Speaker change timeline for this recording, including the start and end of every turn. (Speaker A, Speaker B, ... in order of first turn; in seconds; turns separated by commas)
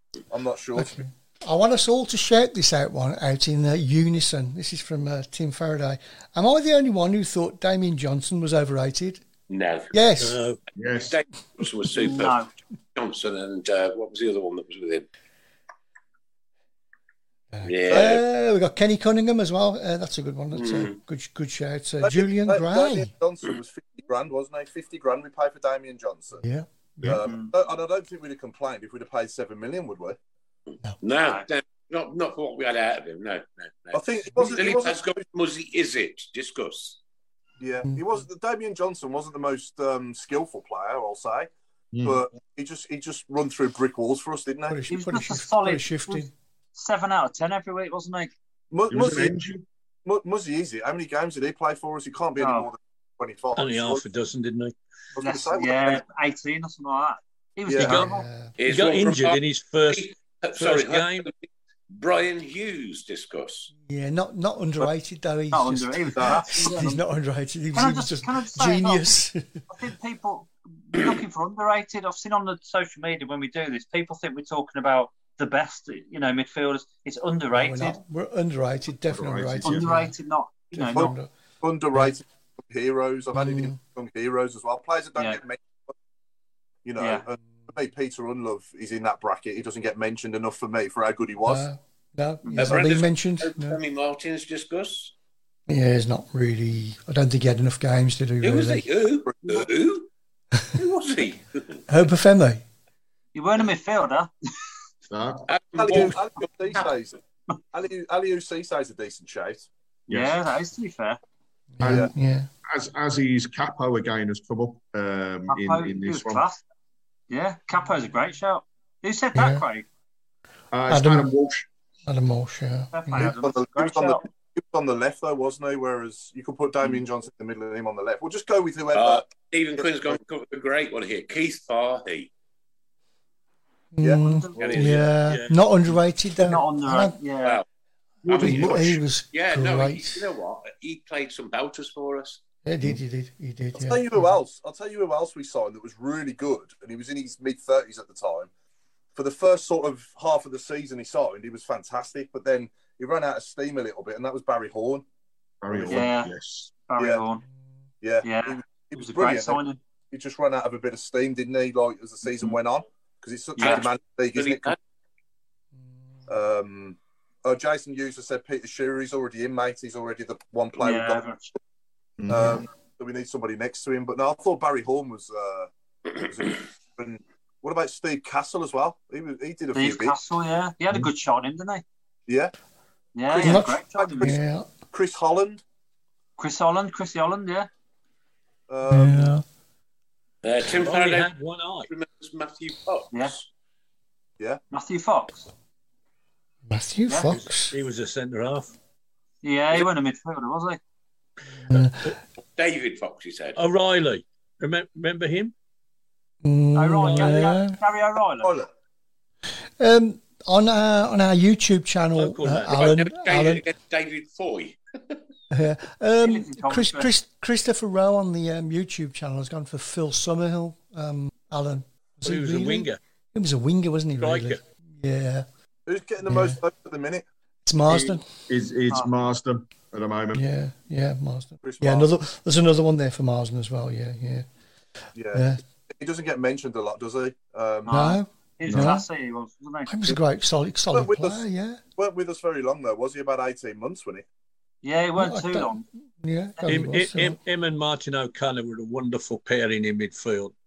Speaker A: 0.3-1.0, Speaker B: 0.8-9.2, Speaker C: 9.5-9.9, Speaker B: 9.9-10.4, Speaker D: 10.2-10.6, Speaker E: 10.8-11.2, Speaker C: 10.8-12.4, Speaker F: 12.0-12.5, Speaker C: 12.9-15.1, Speaker B: 17.5-23.1, Speaker C: 17.6-18.2, Speaker C: 20.5-21.0, Speaker A: 22.0-26.4, Speaker B: 26.4-27.2, Speaker A: 27.0-30.2, Speaker C: 31.0-37.0, Speaker A: 33.9-35.1, Speaker A: 37.6-41.5, Speaker E: 41.9-42.2, Speaker A: 42.0-44.8, Speaker B: 44.7-46.3, Speaker F: 44.9-48.3, Speaker A: 48.7-49.3, Speaker E: 48.9-49.6, Speaker A: 50.1-54.1, Speaker F: 52.4-52.7, Speaker D: 53.6-54.8, Speaker A: 55.2-56.0, Speaker F: 55.2-58.2, Speaker A: 57.7-58.0, Speaker D: 57.8-58.1, Speaker B: 58.0-58.6, Speaker C: 58.6-63.7, Speaker D: 58.6-61.3, Speaker B: 63.8-69.5, Speaker F: 65.5-67.0, Speaker F: 67.7-78.0, Speaker B: 77.5-80.1, Speaker E: 79.1-79.9, Speaker F: 79.6-81.1, Speaker B: 80.8-81.3, Speaker A: 81.0-85.9, Speaker B: 83.3-83.8, Speaker A: 86.8-91.7, Speaker F: 87.0-87.2, Speaker B: 91.5-93.8, Speaker F: 92.4-92.8, Speaker C: 92.6-95.1, Speaker B: 95.7-98.9, Speaker C: 98.4-100.1, Speaker A: 99.3-99.7, Speaker C: 100.8-101.8, Speaker B: 101.9-102.6, Speaker F: 103.3-104.3, Speaker E: 105.1-106.1, Speaker C: 105.5-106.9, Speaker A: 105.8-107.2, Speaker A: 107.7-109.7, Speaker E: 110.1-110.3, Speaker F: 110.1-111.2, Speaker B: 111.8-112.5, Speaker E: 111.8-112.1, Speaker A: 111.9-112.1, Speaker E: 112.7-116.5, Speaker F: 115.5-116.6, Speaker F: 117.3-119.9, Speaker B: 119.3-119.6, Speaker E: 120.7-121.7, Speaker B: 120.9-121.3, Speaker B: 122.1-123.3, Speaker F: 122.9-124.2, Speaker A: 123.2-129.3, Speaker C: 128.9-132.3, Speaker A: 129.8-130.2, Speaker B: 133.9-137.2, Speaker A: 134.0-135.0, Speaker F: 134.2-134.8, Speaker C: 134.6-135.1, Speaker D: 135.2-135.7, Speaker F: 136.4-137.6, Speaker B: 138.2-140.2, Speaker C: 138.3-142.4, Speaker E: 138.3-138.8, Speaker B: 142.6-144.3, Speaker A: 143.8-148.5, Speaker A: 149.2-155.0, Speaker E: 155.6-156.7, Speaker A: 155.7-156.0, Speaker F: 155.9-156.3, Speaker F: 156.9-157.4, Speaker A: 157.0-157.2, Speaker A: 158.0-164.8, Speaker F: 158.2-159.8, Speaker F: 163.6-163.8, Speaker C: 163.6-164.8, Speaker A: 166.3-171.3, Speaker F: 170.8-171.5, Speaker E: 172.2-172.6, Speaker A: 172.3-180.2, Speaker F: 179.7-181.8, Speaker A: 182.3-182.5, Speaker F: 183.2-184.4, Speaker A: 183.3-185.6, Speaker B: 183.4-184.7, Speaker F: 186.4-187.7, Speaker A: 188.7-189.3, Speaker B: 188.9-189.4, Speaker C: 190.4-191.3, Speaker D: 190.6-191.9, Speaker C: 191.9-193.5, Speaker F: 194.7-195.5, Speaker B: 196.7-197.7, Speaker D: 197.3-198.7, Speaker F: 199.4-200.8, Speaker B: 201.6-202.2, Speaker D: 201.7-202.1, Speaker C: 202.6-203.6, Speaker D: 203.6-205.5, Speaker B: 206.4-207.8, Speaker F: 206.8-208.5, Speaker A: 208.4-208.7, Speaker B: 209.8-213.7, Speaker D: 212.2-212.9, Speaker C: 212.7-215.2, Speaker B: 215.5-225.5, Speaker F: 216.2-217.1, Speaker D: 222.2-223.0, Speaker D: 224.2-224.6, Speaker A: 225.9-227.2, Speaker B: 226.3-226.6, Speaker B: 227.7-228.2, Speaker E: 228.5-230.4, Speaker B: 230.3-234.5, Speaker A: 231.6-232.1, Speaker A: 235.2-238.1, Speaker B: 235.3-235.6, Speaker F: 237.9-240.1, Speaker B: 237.9-239.1, Speaker B: 239.9-241.8, Speaker A: 240.9-241.4, Speaker A: 242.0-244.2, Speaker F: 244.8-245.8, Speaker B: 245.2-247.4, Speaker D: 246.7-250.5